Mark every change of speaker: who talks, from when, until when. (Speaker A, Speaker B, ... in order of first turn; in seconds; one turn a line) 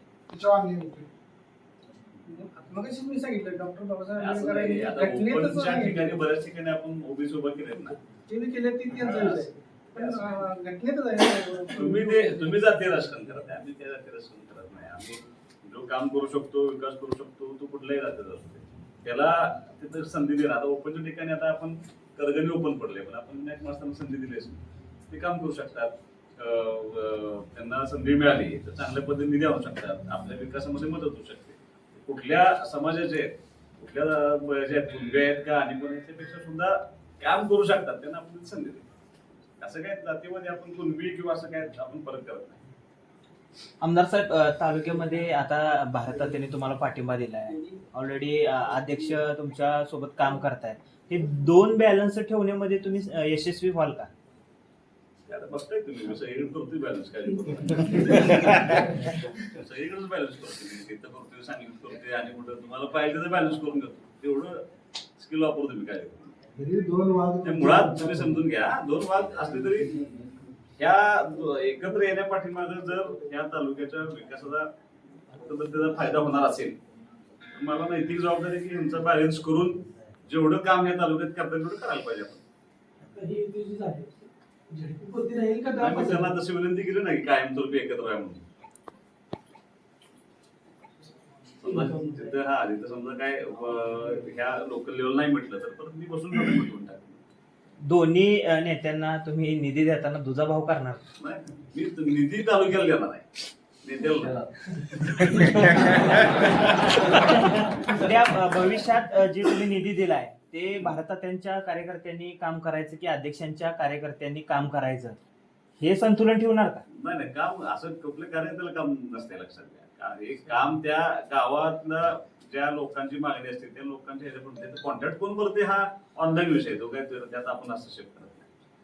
Speaker A: 0.3-1.1
Speaker B: 2.2-6.1
Speaker C: 4.2-8.0
Speaker B: 8.3-12.4
Speaker C: 9.0-10.5
Speaker C: 11.7-38.8
Speaker C: 39.6-42.6
Speaker D: 43.8-54.1
Speaker C: 55.3-64.6
Speaker C: 65.2-66.3
Speaker A: 66.5-68.5
Speaker C: 67.4-70.1
Speaker C: 70.8-74.7
Speaker C: 75.3-76.8
Speaker C: 77.5-82.4
Speaker B: 83.1-84.2
Speaker B: 84.7-86.3
Speaker C: 85.7-88.4
Speaker C: 91.6-97.2
Speaker B: 91.6-92.2
Speaker D: 97.8-101.0
Speaker C: 101.2-103.2
Speaker C: 103.8-104.5
Speaker D: 105.3-106.4
Speaker C: 105.9-107.3
Speaker D: 107.0-115.2
Speaker D: 115.8-116.8
Speaker C: 116.9-128.5